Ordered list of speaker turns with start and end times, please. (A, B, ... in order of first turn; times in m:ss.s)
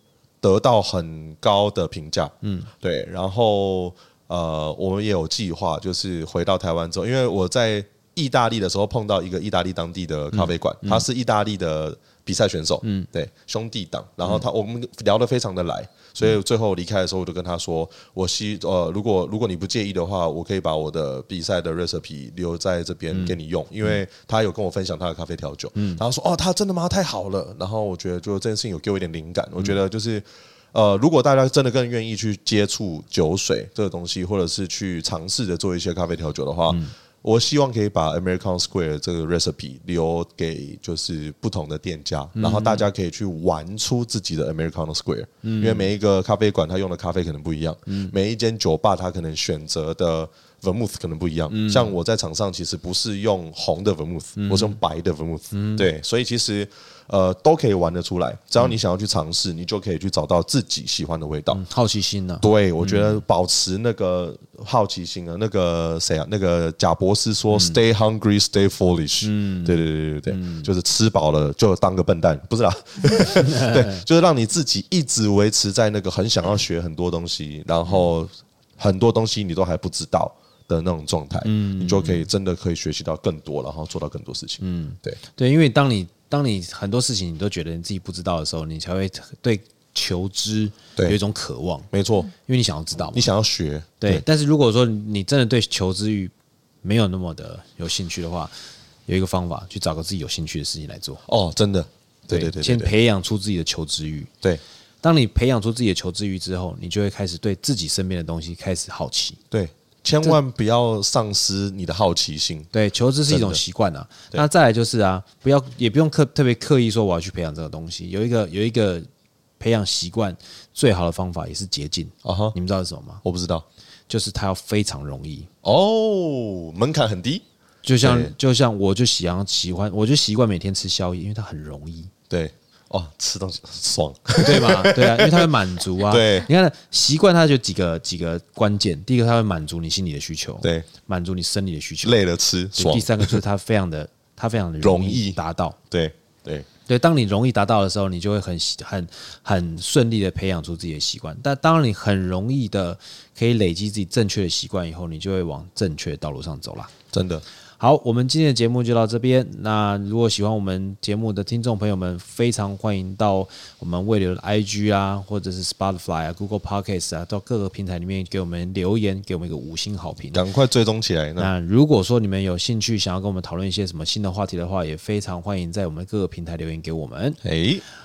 0:00.4-1:01.6 A
0:02.4-0:02.7 B
0:10.3-0:11.0 B
0:23.1-0:24.0 B
0:25.8-0:26.0 B
0:42.4-0:42.9 B
0:45.4-0:45.9 B
0:47.9-0:48.1 B
0:51.5-0:51.9 B
0:54.4-0:54.8 B
0:55.5-0:55.9 B
1:01.5-1:03.2 B
1:02.4-1:25.2 A
1:07.5-1:07.8 B
1:09.2-1:10.7 B
1:13.3-1:14.0 B
1:21.4-1:22.3 B
1:24.6-1:33.3 B
1:31.9-1:32.3 A
1:33.1-1:34.2 A
1:34.0-1:36.3 B
1:36.8-1:38.5 B
1:39.1-1:41.2 B
1:41.3-1:42.9 A
1:42.3-1:44.3 B
1:45.0-1:49.4 B
1:49.5-1:52.7 A
1:52.7-1:59.1 B
1:53.3-1:53.6 A
1:59.6-2:03.2 B
2:02.2-2:02.6 A
2:03.2-2:03.6 A
2:04.1-2:05.5 B
2:05.6-2:07.4 A
2:07.8-2:12.1 B
2:08.0-2:08.3 A
2:12.3-2:15.5 A
2:14.4-2:22.2 B
2:16.1-2:16.5 A
2:22.0-2:23.4 A
2:22.8-2:25.8 B
2:24.8-2:25.4 A
2:25.9-2:26.7 A
2:26.9-2:36.9 B
2:37.1-2:37.4 A
2:37.8-2:50.4 B
2:50.3-2:51.5 A
2:51.4-2:57.4 B
2:57.4-2:57.8 A